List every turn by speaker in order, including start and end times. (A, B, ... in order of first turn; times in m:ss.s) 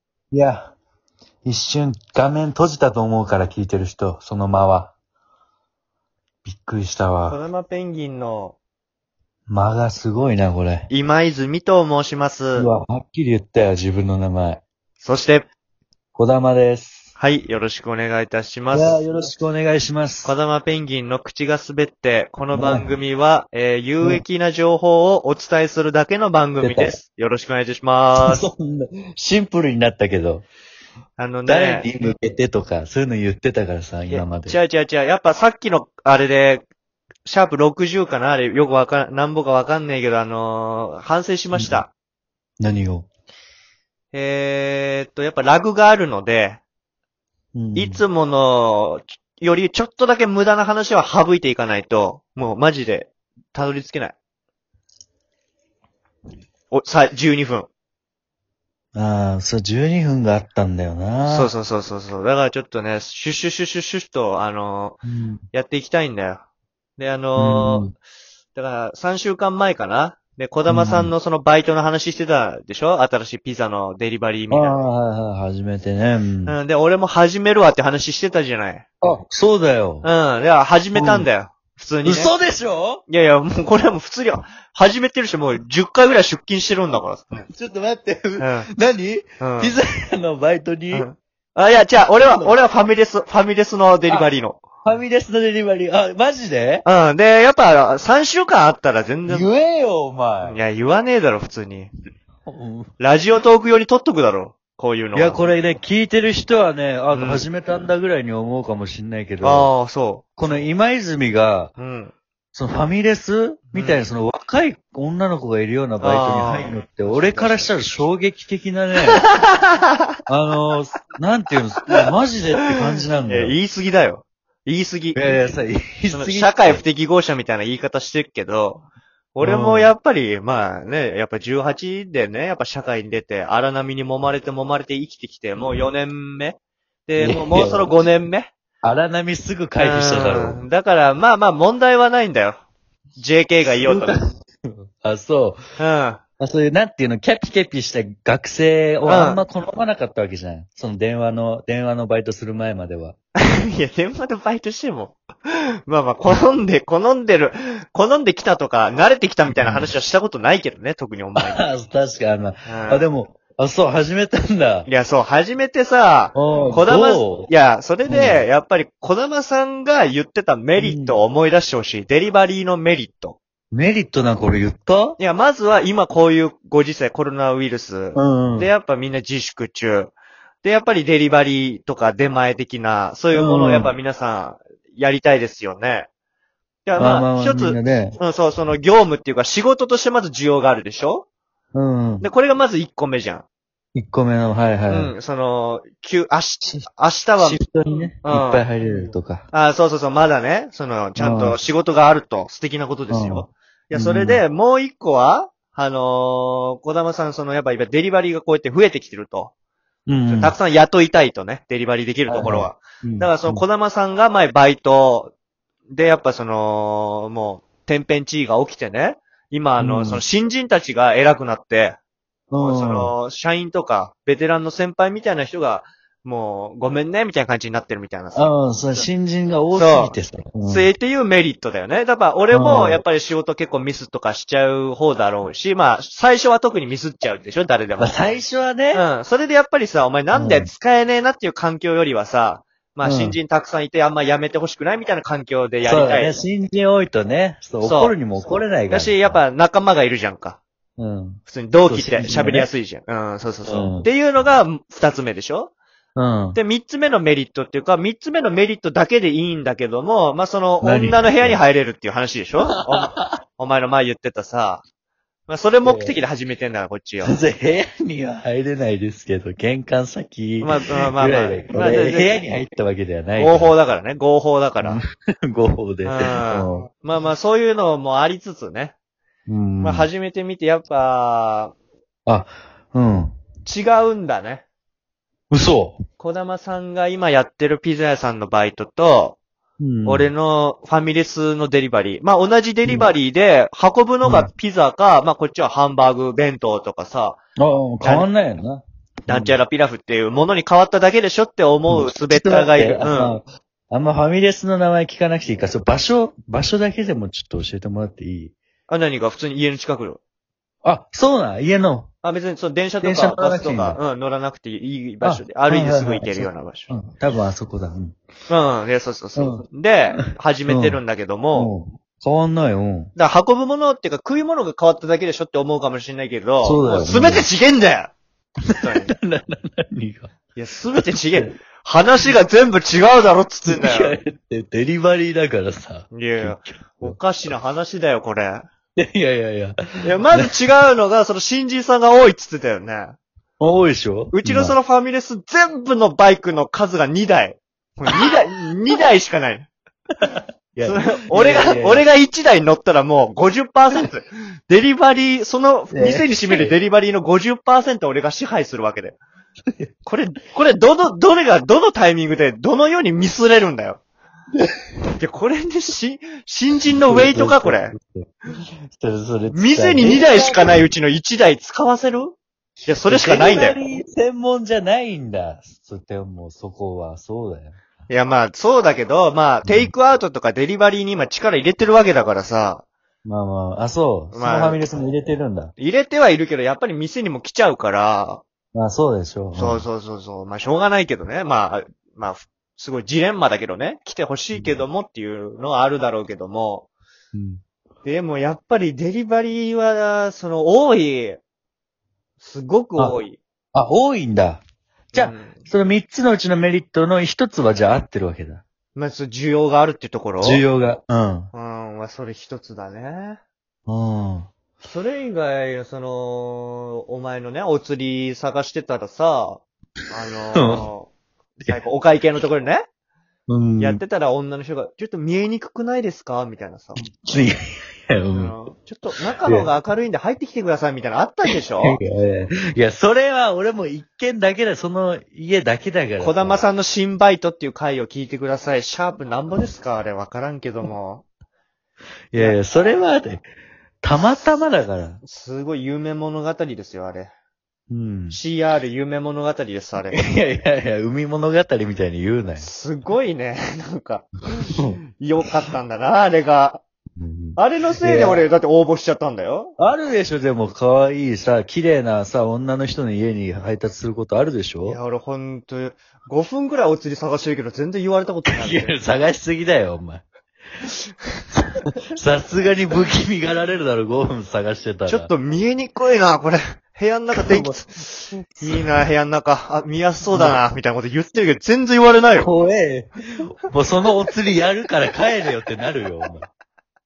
0:00.3-0:00.8 A
0:01.4-0:04.9 A
0:06.4-0:07.4 A
0:07.3-0:08.6 B
0:09.5-0:10.9 A
0:10.9-0:12.7 B
0:12.5-0:14.6 A
0:15.0-0:15.5 B
0:16.1-0:17.1 A
0:17.2-0:19.0 B
0:18.7-0:20.3 A
0:20.2-0:28.5 B
0:22.5-0:23.0 A
0:26.6-0:27.0 A
0:28.1-0:30.4 A
0:31.2-0:31.9 B
0:31.4-0:34.6 A
0:34.1-0:36.6 B
0:37.2-0:41.9 B
0:41.5-0:41.8 A
0:42.6-0:43.1 A
0:44.1-0:46.6 B
0:47.5-0:48.0 A
0:47.7-0:54.2 B
0:56.7-0:57.7 B
0:58.9-1:01.5 A
1:01.3-1:05.0 B
1:05.0-1:05.4 A
1:05.5-1:06.4 B
1:07.0-1:07.9 B
1:07.4-1:07.9 A
1:08.5-1:14.8 B
1:10.7-1:11.1 A
1:14.5-1:16.6 A
1:16.4-1:18.8 B
1:19.0-1:20.1 A
1:20.0-1:22.3 B
1:20.9-1:21.3 A
1:22.0-1:23.0 A
1:23.1-1:27.5 B
1:27.5-1:31.1 A
1:28.4-1:28.7 B
1:29.4-1:29.8 B
1:30.9-1:34.6 B
1:32.2-1:32.5 A
1:34.8-1:36.8 A
1:36.8-1:39.5 B
1:39.3-1:40.6 A
1:40.4-1:41.9 B
1:42.4-1:42.9 A
1:43.0-1:45.4 B
1:45.1-1:49.7 A
1:47.1-1:47.4 B
1:49.4-1:50.3 B
1:50.4-1:51.7 A
1:51.8-1:52.1 B
1:52.5-1:59.2 A
1:53.7-1:54.0 B
1:56.0-1:57.8 B
1:59.0-1:59.8 B
2:00.3-2:03.6 A
2:03.2-2:05.3 B
2:05.1-2:06.8 A
2:06.1-2:18.5 B
2:09.4-2:09.9 A
2:17.2-2:17.9 A
2:18.8-2:20.6 A
2:19.8-2:22.6 B
2:23.2-2:24.2 B
2:23.8-2:25.6 A
2:25.8-2:26.2 B
2:26.4-2:33.2 A
2:29.0-2:29.4 B
2:33.4-2:41.6 B
2:39.5-2:39.9 A
2:41.4-2:44.9 A
2:42.6-2:43.1 B
2:44.9-2:53.4 B
2:46.3-2:47.5 A
2:48.1-2:48.4 A
2:50.8-2:51.2 A
2:53.7-2:55.2 A
2:55.2-3:06.1 B
2:58.1-2:58.7 A
3:03.3-3:03.9 A
3:06.8-3:11.2 B
3:07.0-3:08.2 A
3:11.7-3:12.3 A
3:12.2-3:13.4 B
3:13.9-3:15.1 A
3:14.9-3:17.6 B
3:17.4-3:19.5 A
3:18.2-3:18.6 B
3:19.5-3:29.5 B
3:21.2-3:21.6 A
3:23.1-3:24.4 A
3:30.1-3:30.5 A
3:30.3-3:35.3 B
3:32.3-3:33.6 A
3:35.9-3:42.0 B
3:39.8-3:40.2 A
3:42.5-3:43.1 A
3:42.6-3:49.1 B
3:48.3-3:50.9 A
3:49.7-3:58.4 B
3:52.5-3:53.0 A
3:58.0-3:59.0 A
3:58.9-4:06.4 B
4:00.3-4:00.7 A
4:03.0-4:03.4 A
4:05.8-4:09.4 A
4:07.8-4:08.2 B
4:08.9-4:10.6 B
4:11.0-4:12.7 A
4:11.5-4:15.7 B
4:13.6-4:14.1 A
4:16.2-4:16.6 A
4:16.5-4:24.8 B
4:20.8-4:21.6 A
4:22.6-4:23.3 A
4:25.5-4:27.4 B
4:25.8-4:26.1 A
4:27.2-4:33.7 A
4:30.6-4:32.4 B
4:33.4-4:35.0 B
4:34.8-4:36.9 A
4:36.0-4:38.9 B
4:39.5-4:40.1 A
4:39.8-4:41.7 B
4:42.2-4:43.4 A
4:43.6-4:44.6 B
4:45.5-4:46.0 A
4:46.2-4:49.4 B
4:49.8-4:50.3 A
4:50.0-4:57.4 B
4:54.2-4:54.5 A
4:57.6-4:59.6 A
4:58.0-4:58.3 B
4:59.3-5:03.4 B
5:01.9-5:08.5 A
5:08.9-5:10.2 B
5:10.8-5:12.1 A
5:12.2-5:16.9 B
5:13.0-5:14.0 A
5:15.2-5:18.2 A
5:18.5-5:21.7 B
5:19.4-5:21.0 A
5:21.5-5:23.1 A
5:23.2-5:28.1 B
5:26.6-5:27.5 A
5:28.7-5:29.1 B
5:28.7-5:30.3 A
5:30.5-5:34.2 B
5:30.9-5:31.5 A
5:33.6-5:37.2 A
5:36.1-5:38.6 B
5:39.0-5:40.7 A
5:40.0-5:43.2 B
5:43.6-5:44.8 A
5:44.3-5:49.7 B
5:50.2-5:52.0 A
5:50.8-5:59.2 B
5:55.9-5:56.8 A
6:00.0-6:04.0 B
6:05.2-6:07.9 B
6:07.1-6:08.3 A
6:08.9-6:10.9 A
6:09.5-6:13.8 B
6:13.0-6:17.8 A
6:18.1-6:22.8 B
6:19.6-6:19.9 A
6:23.2-6:25.7 A
6:24.3-6:24.8 B
6:25.8-6:28.4 B
6:28.7-6:29.8 A
6:29.5-6:36.9 B
6:34.5-6:34.8 A
6:37.3-6:37.6 A
6:38.0-6:41.4 B
6:42.4-6:43.4 B
6:43.7-6:48.6 A
6:45.1-6:45.6 B
6:48.9-6:50.6 B
6:50.4-6:51.5 A
6:51.5-6:53.4 B
6:53.9-6:54.5 A
6:54.8-7:01.1 B
7:00.5-7:00.9 A
7:01.6-7:02.8 B
7:03.5-7:04.0 A
7:03.8-7:07.0 B
7:07.0-7:08.5 A
7:08.3-7:12.0 B
7:09.4-7:09.7 A
7:11.5-7:16.6 A
7:16.2-7:21.2 B
7:22.3-7:23.5 A
7:22.3-7:23.0 B
7:24.0-7:25.2 A
7:25.2-7:27.3 B
7:27.9-7:28.4 A
7:28.3-7:30.2 B
7:30.1-7:32.7 A
7:32.6-7:36.8 B
7:37.2-7:38.4 A
7:37.6-7:39.7 B
7:39.8-7:45.0 A
7:44.8-7:48.9 B
7:48.5-7:50.2 A
7:51.5-7:55.3 A
7:55.1-8:02.5 B
7:57.3-7:57.8 A
7:58.6-7:59.0 A
8:00.3-8:00.6 A
8:02.4-8:06.5 A